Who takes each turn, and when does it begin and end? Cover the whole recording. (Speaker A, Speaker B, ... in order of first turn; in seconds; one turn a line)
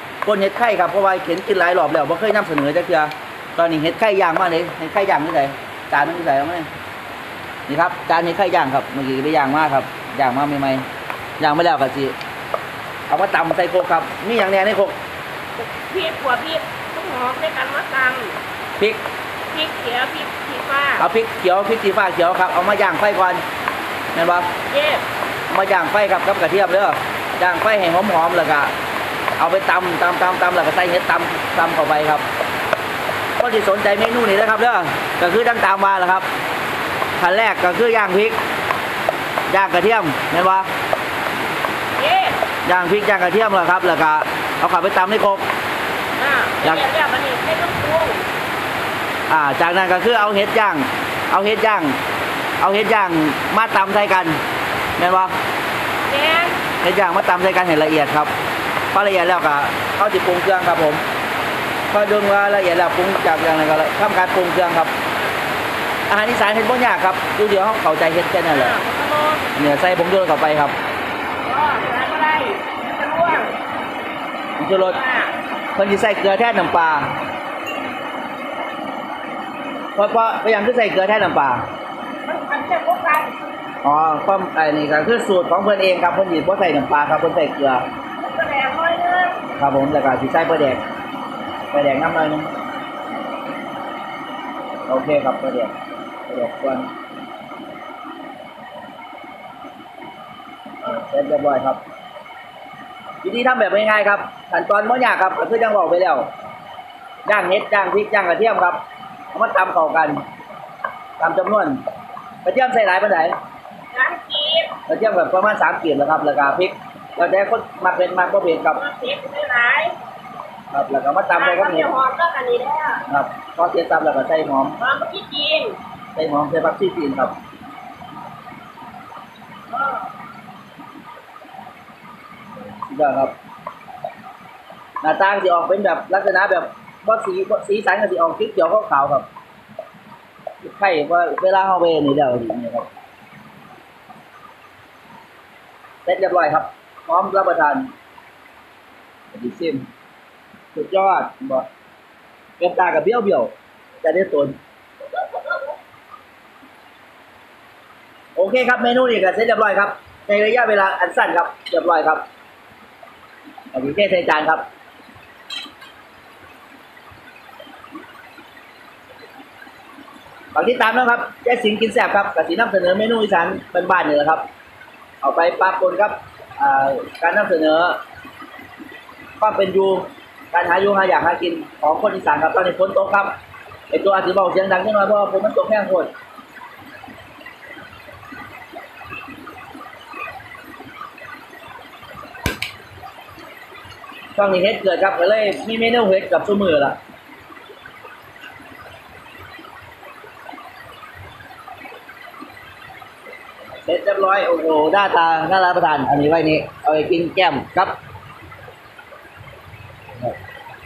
Speaker A: 0.2-6.7
Speaker A: 7.7-10.8
Speaker A: 11.4-12.2
Speaker A: 13.1-15.0
Speaker B: 15.6-18.4
Speaker B: 19.5-21.0
Speaker A: 21.0-23.4
Speaker A: 24.1-24.5
Speaker B: 24.7-25.0
Speaker A: 25.5-28.7
Speaker A: 29.4-32.2
Speaker A: 33.4-36.3
Speaker A: 37.2-38.4
Speaker A: 39.5-40.7
Speaker B: 42.0-42.4
Speaker A: 42.6-45.4
Speaker B: 46.2-48.3
Speaker A: 49.3-52.0
Speaker A: 52.6-54.4
Speaker A: 55.0-55.3
Speaker B: 56.1-56.6
Speaker A: 56.8-58.3
Speaker A: 58.9-61.0
Speaker A: 61.9-64.9
Speaker A: 66.1-68.8
Speaker B: 68.5-69.5
Speaker A: 69.5-70.8
Speaker B: 71.4-73.5
Speaker A: 74.6-75.0
Speaker B: 74.8-75.3
Speaker A: 75.8-77.2
Speaker A: 80.0-81.7
Speaker B: 82.2-83.3
Speaker A: 83.8-87.8
Speaker B: 88.2-89.4
Speaker A: 89.5-90.8
Speaker A: 91.7-92.5
Speaker A: 94.9-95.7
Speaker A: 96.3-96.9
Speaker A: 100.8-101.8
Speaker A: 103.2-106.3
Speaker A: 107.2-108.8
Speaker A: 109.3-110.2
Speaker A: 111.2-111.8
Speaker A: 112.4-113.4
Speaker B: 113.9-114.7
Speaker A: 114.9-118.8
Speaker B: 118.7-120.0
Speaker A: 120.7-121.9
Speaker B: 121.3-123.0
Speaker A: 123.1-124.8
Speaker B: 124.8-125.8
Speaker A: 126.1-127.3
Speaker B: 129.7-130.0
Speaker A: 132.7-133.3
Speaker A: 135.0-139.3
Speaker A: 140.6-142.9
Speaker A: 146.0-147.9
Speaker A: 149.3-149.9
Speaker A: 150.7-151.7
Speaker A: 152.6-154.6
Speaker A: 158.3-162.2
Speaker A: 163.7-164.6
Speaker A: 170.5-174.4
Speaker A: 175.2-178.0
Speaker A: 179.4-183.3
Speaker A: 183.9-186.1
Speaker A: 194.3-197.0
Speaker A: 203.8-207.9